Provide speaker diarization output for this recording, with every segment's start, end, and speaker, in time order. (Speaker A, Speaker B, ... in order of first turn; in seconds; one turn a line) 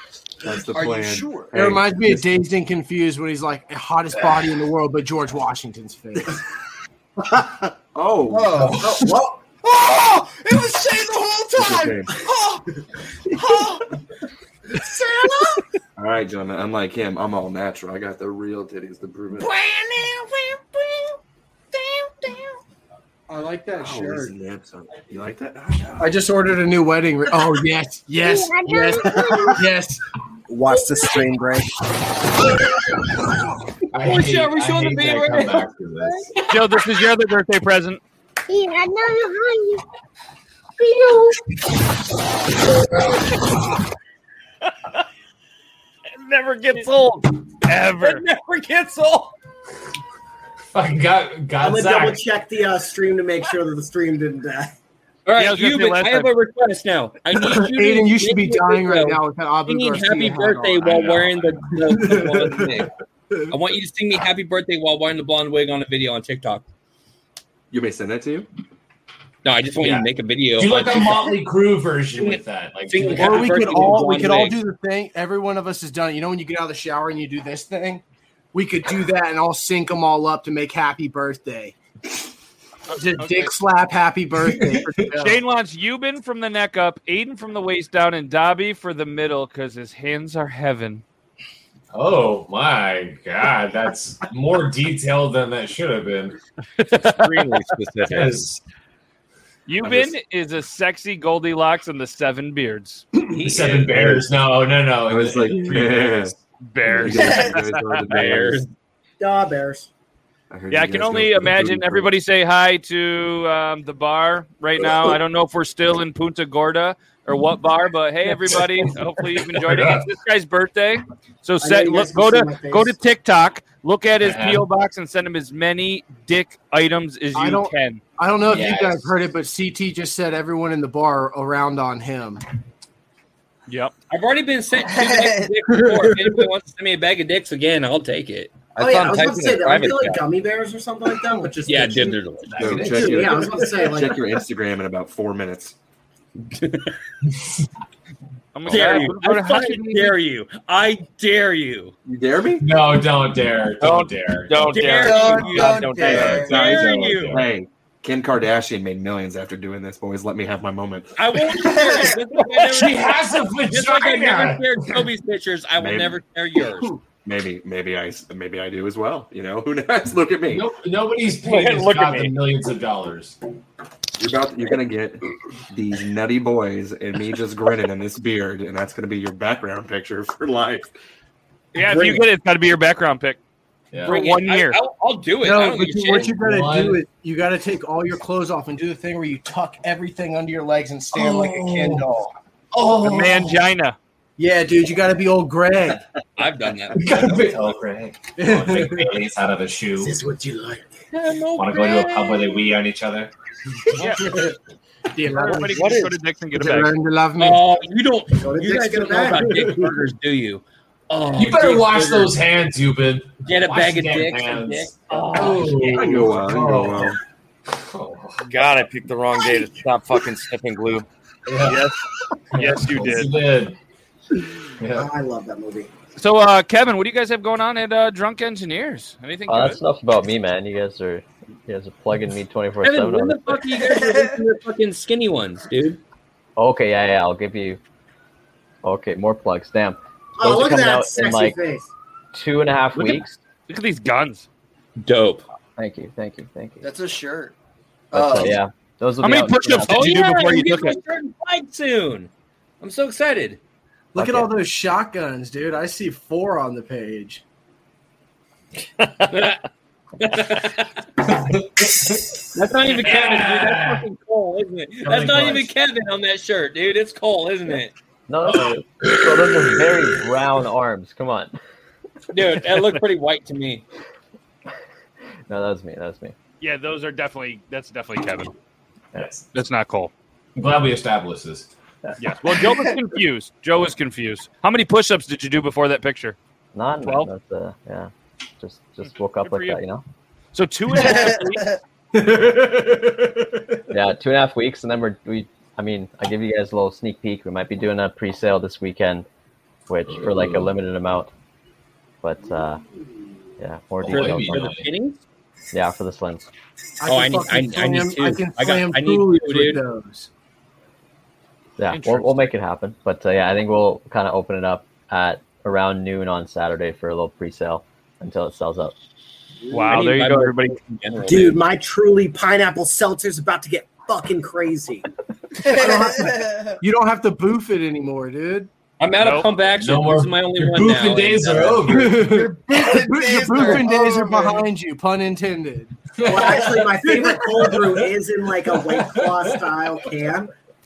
Speaker A: 0.4-2.5
Speaker B: 0.5-1.5
Speaker C: 1.5-6.4
Speaker A: 7.9-8.8
Speaker B: 8.3-12.7
Speaker D: 8.8-9.4
Speaker A: 11.6-12.2
Speaker B: 13.3-13.9
Speaker B: 14.7-15.6
Speaker A: 16.0-19.5
Speaker B: 19.4-21.2
Speaker B: 21.7-22.5
Speaker C: 23.3-24.3
Speaker A: 23.8-26.1
Speaker C: 26.0-30.0
Speaker D: 28.7-29.5
Speaker D: 30.6-31.1
Speaker C: 30.6-31.5
Speaker E: 33.9-36.3
Speaker F: 34.0-36.1
Speaker G: 36.5-38.0
Speaker H: 46.1-49.3
Speaker G: 47.6-48.2
Speaker E: 50.7-52.2
Speaker D: 51.6-54.7
Speaker F: 55.2-62.9
Speaker G: 55.4-56.3
Speaker C: 57.3-60.9
Speaker E: 60.8-62.1
Speaker C: 61.9-62.8
Speaker F: 63.5-66.6
Speaker A: 67.7-68.5
Speaker F: 69.4-71.4
Speaker E: 69.8-74.0
Speaker F: 72.2-74.6
Speaker C: 73.1-78.0
Speaker C: 78.5-81.8
Speaker G: 82.9-83.5
Speaker C: 82.9-85.4
Speaker E: 84.5-85.0
Speaker G: 85.2-91.0
Speaker E: 91.9-96.3
Speaker H: 96.8-98.4
Speaker E: 98.0-98.6
Speaker G: 99.7-103.1
Speaker A: 99.8-100.1
Speaker F: 103.3-104.2
Speaker E: 103.4-106.4
Speaker A: 105.0-106.3
Speaker G: 106.6-108.0
Speaker A: 106.9-108.6
Speaker F: 108.1-108.7
Speaker D: 109.2-109.9
Speaker A: 110.5-112.1
Speaker G: 110.7-128.0
Speaker E: 119.5-120.1
Speaker D: 121.6-122.9
Speaker E: 124.2-124.7
Speaker C: 127.3-132.4
Speaker E: 128.5-129.1
Speaker G: 133.7-133.9
Speaker F: 134.1-138.5
Speaker B: 134.9-135.5
Speaker C: 135.8-136.2
Speaker H: 138.7-140.2
Speaker D: 138.8-142.2
Speaker F: 141.7-143.4
Speaker E: 142.4-143.7
Speaker A: 142.6-145.7
Speaker D: 142.9-144.2
Speaker F: 146.6-146.9
Speaker G: 148.5-150.2
Speaker E: 148.6-149.1
Speaker F: 148.7-151.9
Speaker A: 152.0-152.7
Speaker E: 152.6-155.0
Speaker H: 153.8-156.4
Speaker F: 154.7-157.4
Speaker B: 155.0-156.5
Speaker A: 156.0-161.1
Speaker E: 156.1-157.5
Speaker F: 161.2-166.9
Speaker B: 161.7-162.1
Speaker E: 162.6-165.0
Speaker A: 165.8-166.2
Speaker A: 167.2-170.7
Speaker E: 170.5-173.4
Speaker H: 171.4-172.3
Speaker A: 174.2-180.9
Speaker G: 181.7-183.4
Speaker F: 181.8-182.2
Speaker G: 184.0-184.8
Speaker F: 184.0-186.3
Speaker C: 185.4-192.3
Speaker E: 186.2-187.0
Speaker E: 191.1-192.1
Speaker E: 192.7-193.7
Speaker G: 193.0-193.9
Speaker C: 194.4-196.0
Speaker F: 196.4-197.0
Speaker E: 196.9-200.2
Speaker C: 198.4-199.2
Speaker D: 200.0-200.8
Speaker F: 201.1-202.7
Speaker E: 201.6-203.3
Speaker G: 203.9-204.3
Speaker C: 203.9-204.6
Speaker C: 205.1-207.6
Speaker G: 205.2-206.9
Speaker F: 207.4-212.4
Speaker D: 208.4-209.5
Speaker C: 209.5-209.9
Speaker E: 211.3-217.2
Speaker F: 213.4-216.2
Speaker A: 215.8-217.2
Speaker E: 217.7-218.5
Speaker H: 218.5-221.1
Speaker E: 221.4-221.9
Speaker G: 221.7-222.0
Speaker E: 222.5-223.8
Speaker G: 222.5-223.3
Speaker E: 224.8-225.1
Speaker D: 224.9-225.9
Speaker G: 226.2-229.8
Speaker I: 229.5-233.6
Speaker F: 232.8-236.0
Speaker I: 236.6-237.8
Speaker I: 238.8-241.6
Speaker D: 240.4-241.9
Speaker I: 242.3-243.4
Speaker G: 243.7-244.5
Speaker F: 245.0-245.4
Speaker I: 245.8-246.8
Speaker B: 246.8-247.5
Speaker B: 248.1-248.6
Speaker I: 248.1-250.3
Speaker G: 249.2-251.0
Speaker F: 249.9-252.3
Speaker F: 252.8-253.6
Speaker C: 254.1-257.4
Speaker I: 254.2-254.5
Speaker F: 259.3-259.6
Speaker F: 260.2-261.0
Speaker E: 261.3-264.0
Speaker F: 262.5-267.9
Speaker E: 265.0-265.7
Speaker I: 268.3-271.5
Speaker E: 268.4-270.2
Speaker F: 272.3-273.8
Speaker I: 275.5-276.3
Speaker G: 276.6-278.5
Speaker E: 279.1-279.4
Speaker G: 279.5-280.1
Speaker E: 280.6-281.7
Speaker G: 282.2-286.4
Speaker I: 286.7-290.0
Speaker G: 287.0-287.3
Speaker G: 289.0-289.8
Speaker G: 290.5-291.8
Speaker B: 291.0-291.8
Speaker C: 292.1-293.2
Speaker I: 293.9-299.3
Speaker I: 299.9-301.3
Speaker E: 300.1-300.7
Speaker I: 302.2-302.8
Speaker I: 303.6-304.7
Speaker E: 304.0-304.9
Speaker F: 304.1-305.2
Speaker I: 305.7-306.5
Speaker C: 307.0-310.3
Speaker F: 307.1-309.8
Speaker I: 311.8-318.9
Speaker G: 311.9-312.5
Speaker G: 319.7-320.8
Speaker F: 319.7-321.6
Speaker D: 321.2-325.1
Speaker C: 325.7-328.7
Speaker B: 325.7-326.8
Speaker F: 329.0-331.9
Speaker G: 329.2-329.5
Speaker E: 329.7-332.6
Speaker C: 331.8-336.0
Speaker B: 332.7-334.6
Speaker D: 333.7-334.2
Speaker E: 336.1-338.1
Speaker D: 336.2-340.5
Speaker E: 338.7-339.6